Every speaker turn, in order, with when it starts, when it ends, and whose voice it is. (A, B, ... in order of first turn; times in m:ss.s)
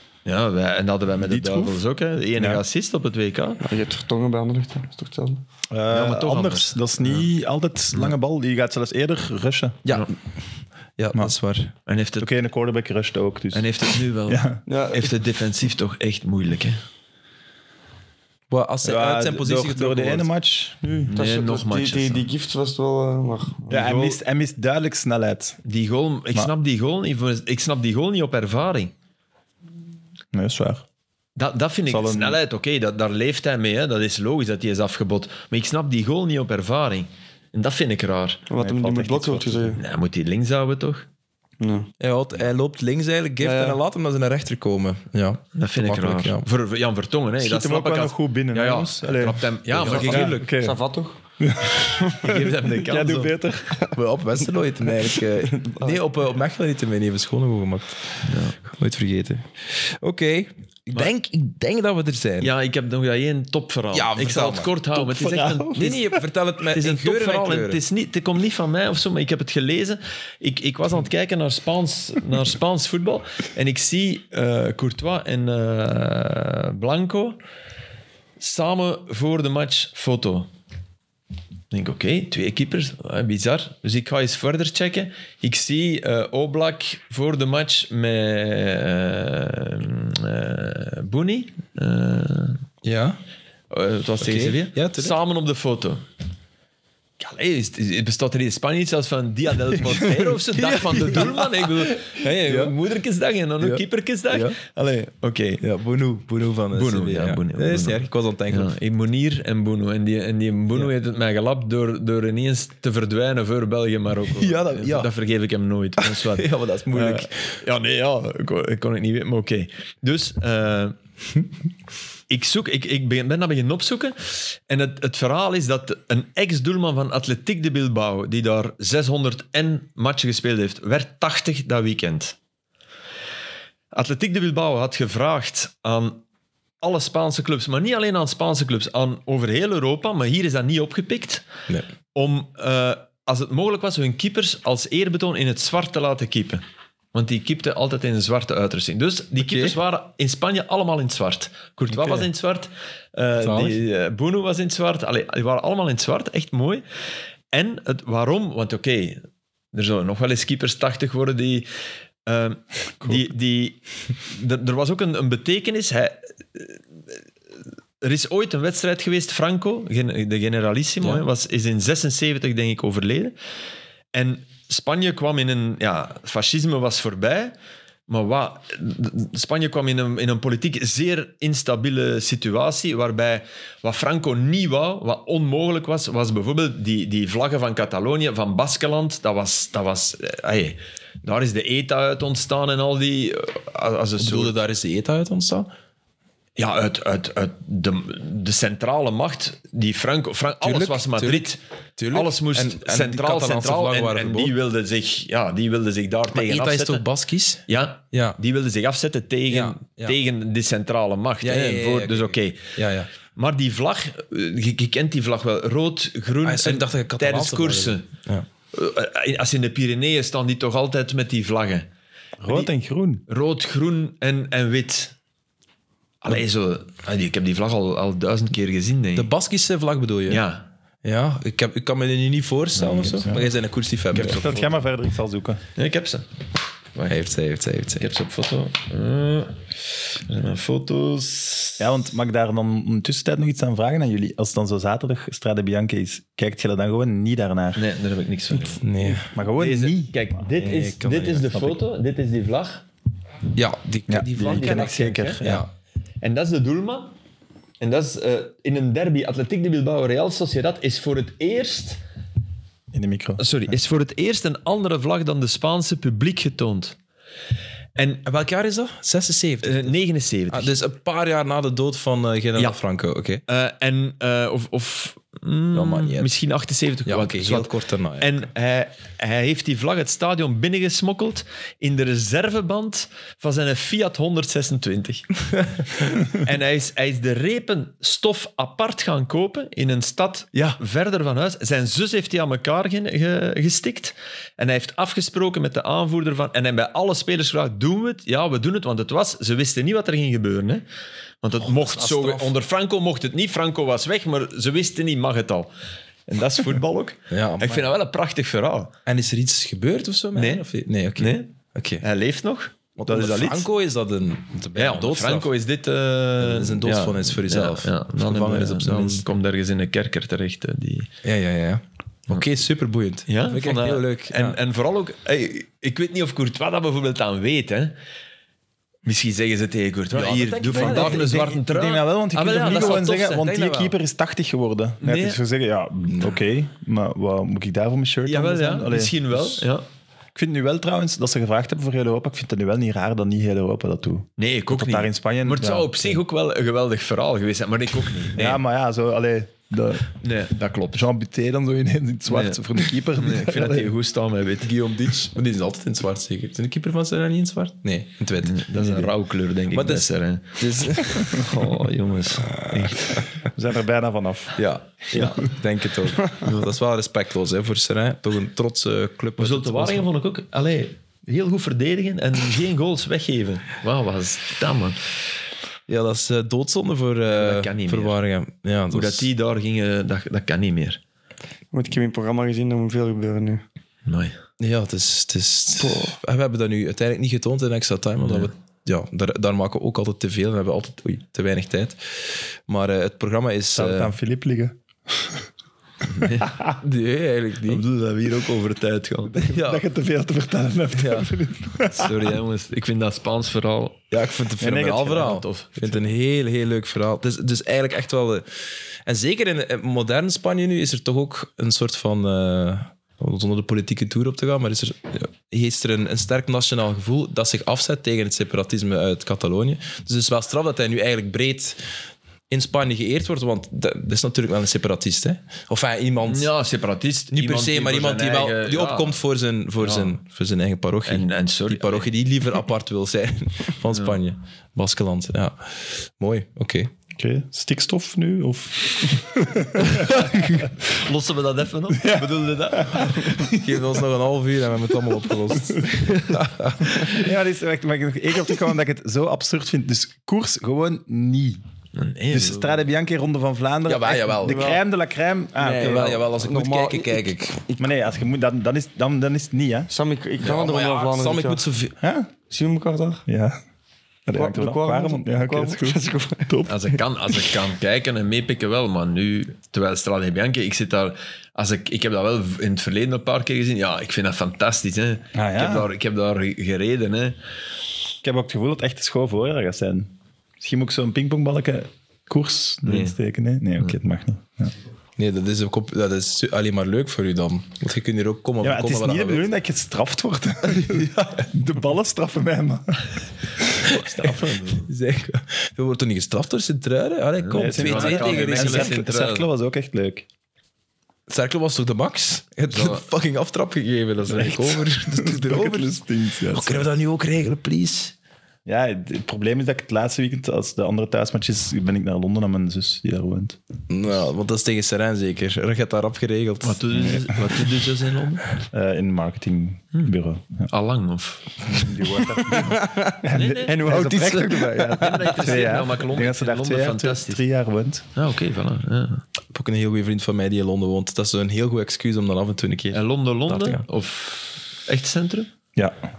0:00.2-0:03.6 A
0:01.2-0:01.8 B
0:02.4-0:02.6 B
0:03.6-0:05.4 C
0:05.7-0:09.8 B
0:05.9-0:07.3 A
0:11.0-0:11.7 D
0:11.8-0:12.3 A
0:12.2-0:14.6 B
0:13.5-0:16.8 A
0:14.7-0:15.1 C
0:18.5-0:20.3 D
0:18.8-0:20.9 B
0:20.8-0:23.8 C
0:21.1-0:22.3 A
0:23.7-0:25.6 B
0:23.7-0:24.2 A
0:25.6-0:28.9 A
0:30.3-0:30.8 B
0:31.4-0:38.4 A
0:31.9-0:32.4 B
0:38.5-0:39.8 C
0:38.6-0:39.8 B
0:39.8-0:41.0 A
0:41.6-0:41.9 C
0:42.0-0:46.4 D
0:43.4-0:43.8 C
0:45.5-0:50.3 A
0:47.4-0:50.8 B
0:49.8-0:50.5 D
0:50.6-0:51.2 C
0:51.4-0:53.8 B
0:52.2-0:53.4 A
0:53.1-0:53.9 C
0:53.9-1:02.5 D
0:55.0-0:56.0 C
0:58.2-0:58.6 A
1:02.4-1:17.4 A
1:03.9-1:04.7 D
1:04.9-1:06.0 B
1:05.8-1:07.8 D
1:18.4-1:20.5 A
1:21.7-1:32.6 A
1:32.8-1:33.2 D
1:33.7-1:36.0 A
1:34.2-1:35.2 D
1:37.2-1:45.6 A
1:39.8-1:42.7 D
1:43.6-1:44.6 D
1:45.6-1:48.7 D
1:46.7-2:01.0 A
1:54.4-1:55.1 D
1:56.0-1:57.5 D
2:02.3-2:12.4 A
2:13.9-2:16.2 A
2:16.8-2:21.4 A
2:22.1-2:26.6 A
2:27.1-2:36.8 A
2:29.4-2:29.8 D
2:31.9-2:32.2 D
2:33.4-2:33.8 D
2:37.5-2:41.7 A
2:42.2-2:46.8 A
2:48.0-2:53.3 A
2:54.1-2:57.5 A
2:58.1-3:14.6 A
3:14.2-3:15.7 D
3:16.6-3:21.6 A
3:20.6-3:24.5 D
3:22.1-3:27.0 A
3:26.3-3:28.4 D
3:27.7-3:32.7 A
3:29.5-3:30.2 D
3:31.4-3:33.1 D
3:33.3-3:38.1 A
3:36.4-3:38.4 D
3:38.7-3:41.9 A
3:42.4-3:43.2 B
3:43.3-3:45.1 A
3:46.2-3:49.3 A
3:49.2-3:50.4 D
3:50.3-3:50.6 A
3:51.0-3:54.6 D
3:52.8-3:53.4 A
3:54.1-3:54.5 A
3:54.1-3:55.6 B
3:55.8-3:56.3 A
3:57.1-3:58.1 D
3:58.0-4:01.9 A
4:01.8-4:07.8 B
4:07.8-4:08.8 A
4:08.8-4:09.3 D
4:09.1-4:10.4 B
4:09.4-4:12.8 A
4:10.6-4:11.5 D
4:11.5-4:11.8 B
4:13.5-4:15.7 D
4:14.1-4:15.6 B
4:14.4-4:15.4 A
4:16.2-4:17.1 A
4:17.8-4:22.0 A
4:22.9-4:23.4 B
4:23.4-4:27.0 A
4:28.0-4:28.2 A
4:28.2-4:29.9 D
4:29.6-4:30.7 A
4:30.5-4:33.4 D
4:33.5-5:00.8 A
4:35.7-4:36.3 D
4:37.0-4:38.4 D
5:01.4-5:05.7 A
5:01.6-5:02.5 D
5:06.3-5:08.9 A
5:07.3-5:07.9 D
5:09.0-5:12.0 D
5:10.3-5:11.5 A
5:12.0-5:13.7 A
5:13.0-5:15.5 D
5:14.8-5:21.1 A
5:16.4-5:19.2 D
5:21.2-5:24.6 D
5:23.3-5:28.0 A
5:29.0-5:33.6 A
5:30.1-5:31.3 D
5:30.7-5:39.6 B
5:32.5-5:33.9 D
5:35.0-5:35.4 A
5:38.3-5:39.8 A
5:40.3-5:46.2 B
5:44.4-5:48.6 A
5:48.3-5:50.2 B
5:50.2-5:51.0 A
5:50.9-5:53.9 B
5:52.3-5:54.8 A
5:54.6-5:59.1 D
5:58.4-6:03.2 A
5:59.7-6:01.5 D
6:02.6-6:03.1 D
6:03.5-6:04.6 B
6:04.6-6:10.1 D
6:05.1-6:05.4 A
6:09.4-6:15.0 A
6:15.9-6:19.3 D
6:17.3-6:18.2 A
6:18.9-6:21.0 A
6:21.7-6:23.6 C
6:24.0-6:24.3 A
6:24.6-6:34.1 D
6:25.8-6:26.1 C
6:33.7-6:35.4 B
6:36.8-6:37.8 D
6:37.7-6:39.4 A
6:39.4-6:39.8 D
6:39.5-6:42.2 B
6:40.9-6:41.3 D
6:41.9-6:44.0 A
6:44.1-6:48.4 D
6:44.6-6:45.4 B
6:44.6-6:45.8 A
6:49.0-7:01.8 D
7:02.5-7:06.5 D
7:06.3-7:09.2 A
7:07.3-7:16.9 D
7:09.8-7:10.2 A
7:11.0-7:12.1 A
7:13.9-7:14.2 A
7:17.2-7:20.2 B
7:20.0-7:23.6 A
7:21.9-7:23.4 B
7:23.5-7:27.2 D
7:27.0-7:31.6 B
7:31.9-7:32.8 A
7:32.3-7:36.2 B
7:33.9-7:34.7 D
7:34.4-7:34.8 C
7:35.6-7:37.9 C
7:35.8-7:37.6 D
7:37.8-7:39.9 B
7:39.9-7:41.6 C
7:40.4-7:41.9 D
7:42.0-7:42.3 B
7:42.5-7:43.2 C
7:43.3-7:43.6 B
7:44.2-7:47.0 B
7:44.3-7:46.5 C
7:46.6-7:57.4 A
7:55.3-7:55.9 B
7:58.2-8:04.7 B
8:02.8-8:03.2 A
8:05.2-8:09.5 D
8:08.6-8:13.1 B
8:10.6-8:11.5 D
8:13.8-8:14.9 A
8:14.8-8:19.0 D
8:17.4-8:19.4 A
8:17.5-8:20.3 B
8:21.3-8:26.0 D
8:22.7-8:23.1 A
8:24.3-8:26.9 B
8:26.5-8:28.1 D
8:28.6-8:33.6 B
8:33.9-8:37.4 D
8:36.6-8:38.4 A
8:38.7-8:40.7 B
8:40.7-8:42.0 A
8:41.6-8:48.1 B
8:42.2-8:45.6 C
8:43.3-8:47.4 A
8:48.2-8:49.2 A
8:49.5-8:53.8 D
8:52.9-8:55.5 A